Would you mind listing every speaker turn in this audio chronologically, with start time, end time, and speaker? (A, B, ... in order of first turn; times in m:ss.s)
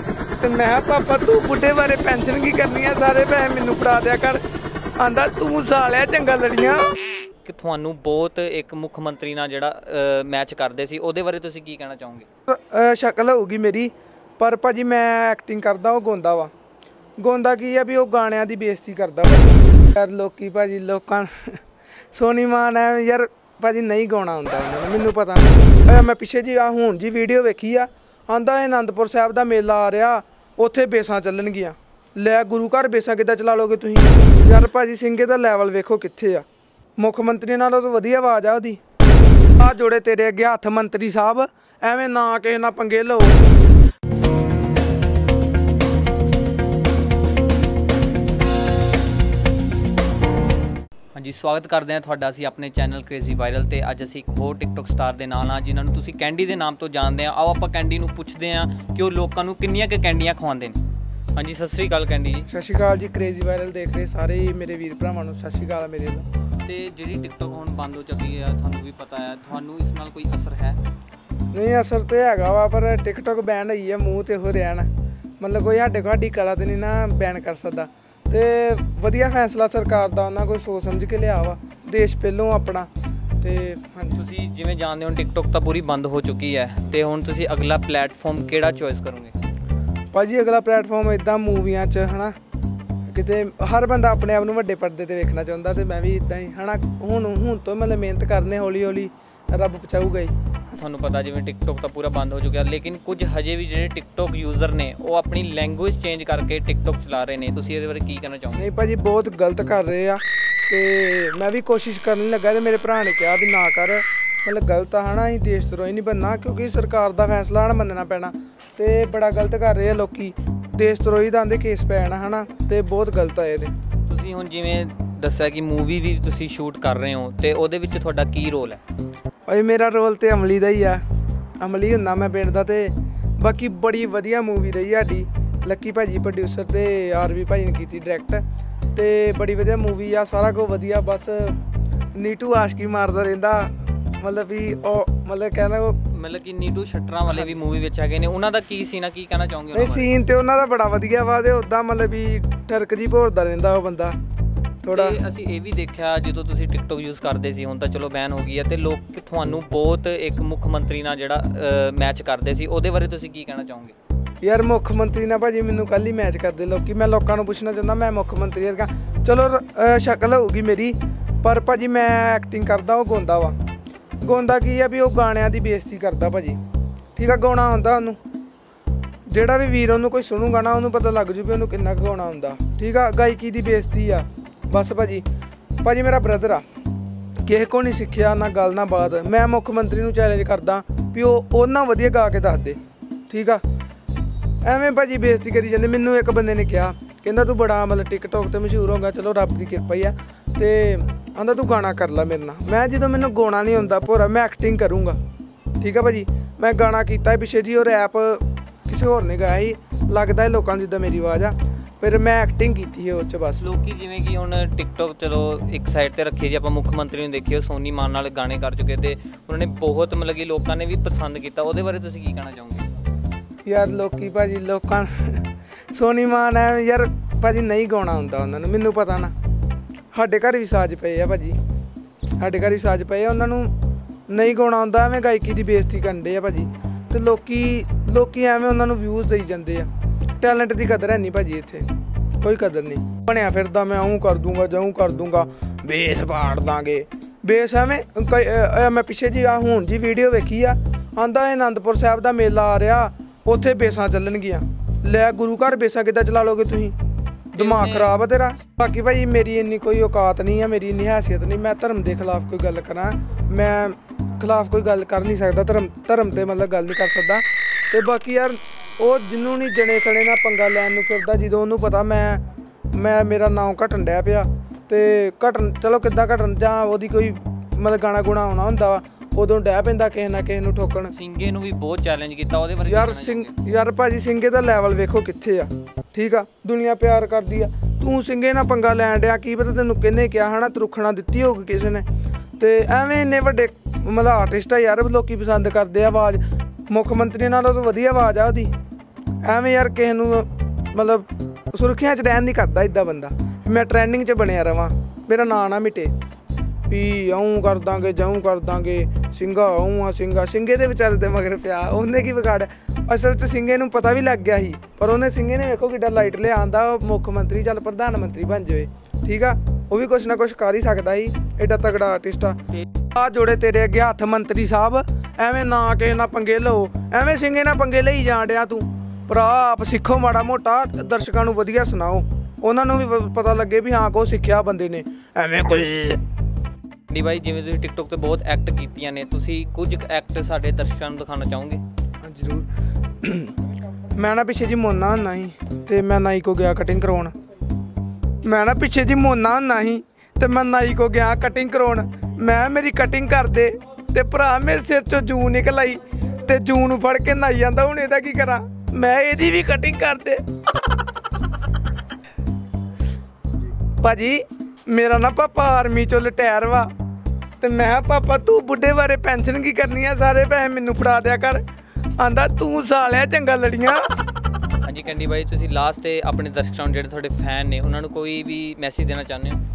0:00.4-0:04.4 A
0:05.0-0:07.1 A
0:07.4-0:12.3 B
0:12.5-0:16.5 A
0:17.2-0:21.6 A
0:22.1-0:36.4 A
0:37.0-0:38.8 A
0:39.6-0:43.4 A
0:51.1-1:00.8 B
1:01.4-1:02.5 B
1:02.5-1:06.3 A
1:06.6-1:10.8 B
1:11.5-1:14.9 A
1:15.4-1:22.9 A
1:23.4-1:24.2 A
1:24.2-1:29.4 B
1:30.1-1:32.4 A
1:33.1-1:40.3 A
1:40.7-1:48.6 B
1:48.6-2:03.7 A
2:04.1-2:08.8 B
2:09.5-2:11.0 A
2:11.6-2:18.4 A
2:18.9-2:21.6 A
2:22.2-2:26.0 A
2:26.1-2:30.1 B
2:27.3-2:27.6 A
2:29.7-2:34.2 A
2:34.8-2:35.2 A
2:34.9-2:43.9 B
2:44.4-2:53.6 A
2:54.2-2:56.6 A
2:57.2-2:58.2 A
2:59.3-3:05.2 A
3:05.8-3:06.6 A
3:07.4-3:12.8 A
3:13.3-3:13.6 A
3:14.6-3:25.2 A
3:25.8-3:33.6 A
3:33.6-3:42.9 B
3:43.6-3:49.3 A
3:50.1-3:51.6 A
3:52.4-3:53.7 A
3:54.3-3:59.9 A
4:00.4-4:01.9 A
4:02.4-4:17.0 A
4:17.5-4:41.1 A
4:17.6-4:18.2 B
4:41.1-4:43.5 B
4:42.8-4:52.0 A
4:52.6-4:58.7 A
4:59.4-5:06.1 A
5:06.9-5:36.2 A
5:37.1-5:41.8 B
5:42.2-5:42.7 A
5:43.2-5:43.5 A
5:44.2-5:47.3 A
5:48.4-6:00.4 A
6:04.0-6:06.9 A
6:07.6-6:11.6 A
6:12.2-6:14.0 A
6:14.8-6:19.6 B